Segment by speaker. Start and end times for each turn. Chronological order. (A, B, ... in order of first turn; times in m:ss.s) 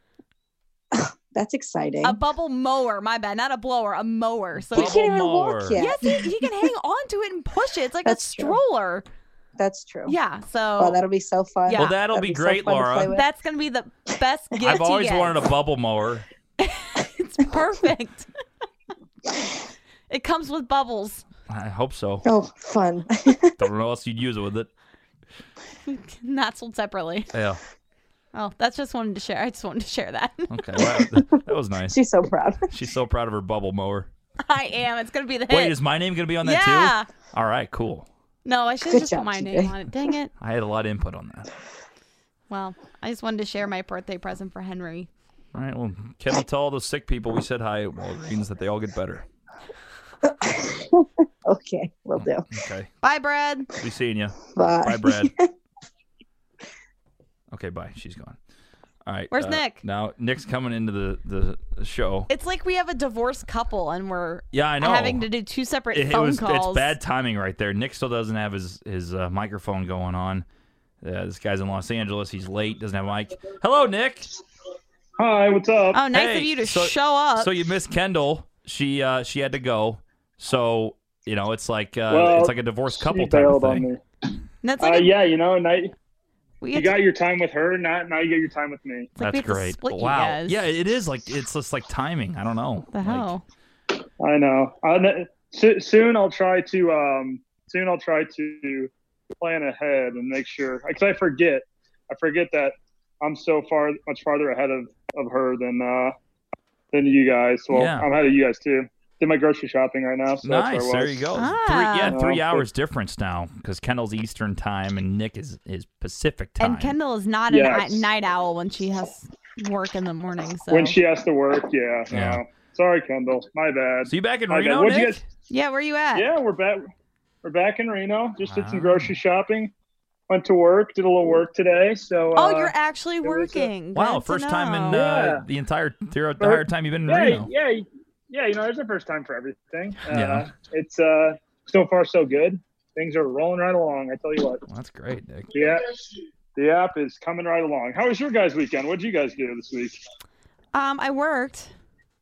0:00.9-0:02.2 A
0:02.0-0:05.0 B
0:04.7-0:05.9 C
0:04.7-0:06.6 A
0:05.8-0:09.0 B
0:08.0-0:08.6 A
0:09.6-0:10.2 A
0:10.1-0:11.0 B
0:10.8-0:13.2 A
0:11.7-0:12.0 B
0:11.8-0:13.1 C
0:13.1-0:15.4 B
0:14.6-0:16.2 C
0:16.6-0:18.3 B
0:20.1-0:21.2 B
0:21.5-0:22.3 C
0:22.2-0:23.6 A
0:23.6-0:24.7 C
0:25.9-0:27.3 B
0:27.3-0:27.6 C
0:28.3-0:30.6 B
0:30.5-0:32.0 C
0:31.0-0:32.7 A
0:32.7-0:34.1 C
0:34.4-0:35.8 B
0:35.5-0:38.1 C
0:36.4-0:37.1 B
0:38.4-0:40.3 B
0:38.9-0:39.8 A
0:40.4-0:41.5 C
0:42.5-0:45.1 B
0:45.5-0:49.2 C
0:50.2-0:52.4 A
0:52.2-0:52.9 C
0:53.0-0:53.7 B
0:53.8-0:55.3 C
0:54.5-0:55.5 A
0:57.5-0:58.4 C
0:59.1-1:02.3 C
0:59.3-0:59.8 B
1:02.3-1:07.0 B
1:04.5-1:05.3 C
1:05.9-1:10.4 C
1:11.0-1:14.3 C
1:15.2-1:16.0 D
1:15.9-1:17.6 B
1:16.1-1:23.9 C
1:22.1-1:24.0 D
1:24.6-1:25.1 B
1:24.8-1:25.9 D
1:26.6-1:27.0 B
1:26.7-1:29.1 D
1:29.2-1:30.6 B
1:29.2-1:33.3 C
1:32.9-1:33.4 B
1:34.2-1:46.2 D
1:46.9-1:51.2 D
1:47.7-1:48.1 C
1:50.4-1:57.0 C
1:51.4-1:52.2 B
1:52.1-1:52.6 D
1:56.6-2:01.0 B
1:57.5-1:58.1 D
2:00.7-2:05.2 D
2:02.1-2:02.4 C
2:04.1-2:05.2 C
2:05.5-2:06.3 B
2:06.1-2:06.8 D
2:07.4-2:09.7 D
2:08.4-2:09.1 C
2:10.3-2:13.7 D
2:12.4-2:15.1 B
2:13.9-2:17.5 C
2:14.9-2:15.4 D
2:16.4-2:24.6 D
2:20.1-2:20.5 C
2:24.7-2:25.5 C
2:25.5-2:26.0 D
2:26.6-2:30.0 D
2:30.7-2:31.7 B